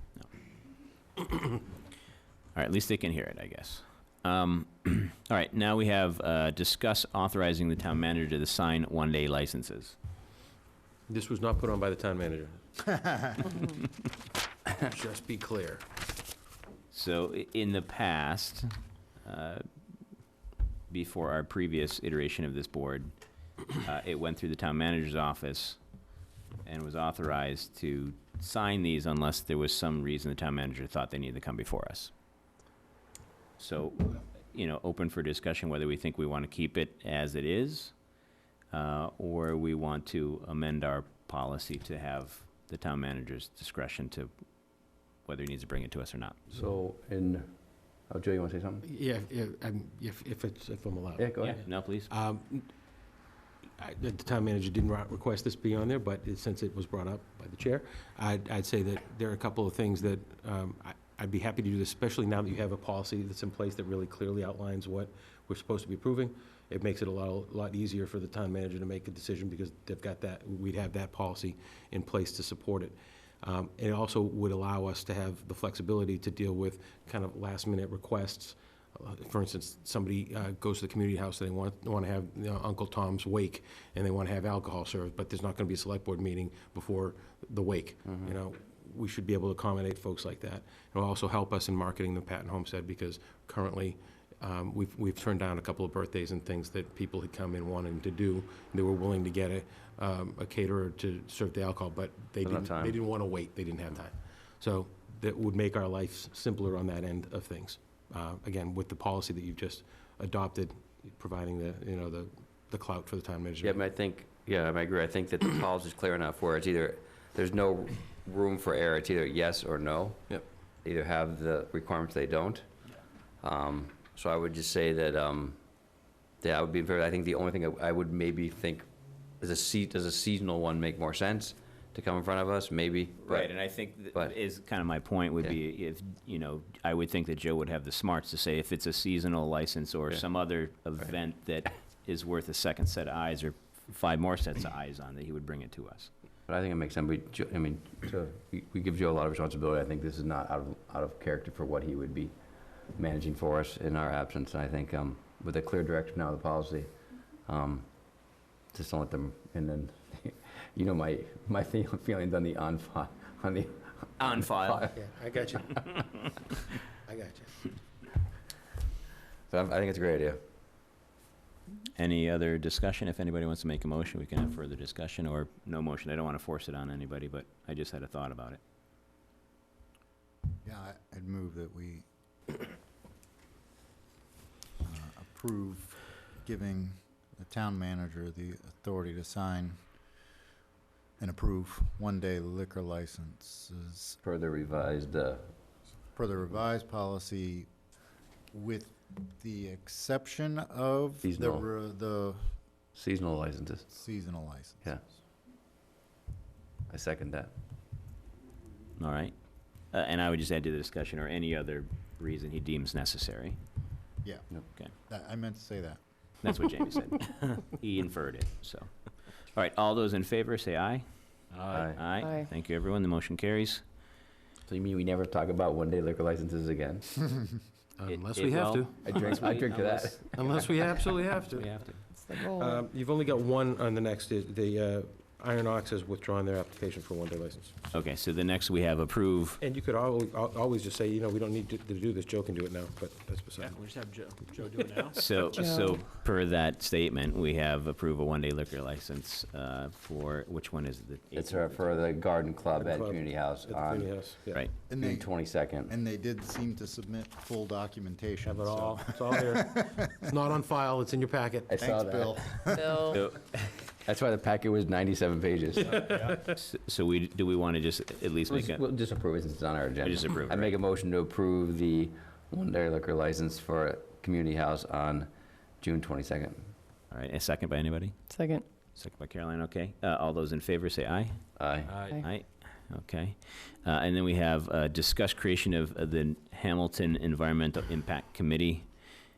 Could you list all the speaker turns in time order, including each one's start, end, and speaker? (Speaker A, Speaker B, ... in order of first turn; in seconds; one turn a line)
Speaker A: 2.5-10.0
Speaker B: 11.1-13.6
Speaker B: 14.8-15.8
Speaker A: 16.9-18.7
Speaker A: 19.2-19.6
Speaker A: 20.9-23.1
Speaker A: 23.7-25.8
Speaker A: 26.6-32.1
Speaker A: 33.6-38.0
Speaker A: 38.7-44.3
Speaker A: 45.2-46.4
Speaker C: 46.5-47.5
Speaker C: 48.1-48.9
Speaker B: 48.8-52.7
Speaker C: 51.2-51.6
Speaker A: 51.4-52.1
Speaker B: 53.8-113.8
Speaker C: 102.4-103.0
Speaker C: 113.6-122.7
Speaker C: 123.4-125.7
Speaker C: 126.4-128.9
Speaker C: 129.4-134.4
Speaker A: 133.2-146.1
Speaker C: 146.5-152.3
Speaker C: 152.9-156.9
Speaker C: 157.5-165.0
Speaker A: 164.2-164.9
Speaker B: 164.9-166.3
Speaker B: 167.0-167.7
Speaker C: 169.5-170.4
Speaker A: 172.0-178.6
Speaker D: 180.6-182.1
Speaker D: 184.8-189.8
Speaker D: 191.2-194.2
Speaker C: 194.2-195.6
Speaker D: 196.2-197.7
Speaker D: 198.5-202.6
Speaker C: 201.2-201.7
Speaker C: 202.9-203.9
Speaker D: 203.9-205.0
Speaker C: 206.9-207.5
Speaker A: 209.0-209.3
Speaker A: 209.9-213.6
Speaker D: 214.2-214.5
Speaker D: 215.0-216.0
Speaker A: 216.4-221.1
Speaker E: 221.5-221.8
Speaker C: 221.7-222.1
Speaker A: 221.9-223.8
Speaker F: 222.2-222.5
Speaker C: 224.7-227.3
Speaker B: 228.0-229.3
Speaker A: 228.1-230.3
Speaker C: 229.0-231.0
Speaker B: 230.3-237.8
Speaker A: 231.5-232.0
Speaker F: 232.2-232.8
Speaker A: 237.9-239.6
Speaker B: 239.6-243.8
Speaker E: 243.6-245.6
Speaker B: 244.5-245.3
Speaker A: 245.1-252.0
Speaker F: 245.6-246.0
Speaker C: 251.3-255.9
Speaker B: 252.7-254.7
Speaker D: 254.9-260.1
Speaker B: 258.4-261.7
Speaker C: 261.7-262.7
Speaker D: 261.8-263.2
Speaker F: 262.7-263.2
Speaker A: 263.1-263.9
Speaker C: 264.0-266.3
Speaker B: 266.1-266.4
Speaker A: 266.4-268.8
Speaker C: 268.5-275.3
Speaker A: 270.0-270.8
Speaker C: 275.8-276.7
Speaker A: 277.1-278.2
Speaker F: 278.3-278.6
Speaker A: 278.9-288.9
Speaker C: 281.6-282.0
Speaker E: 281.9-282.2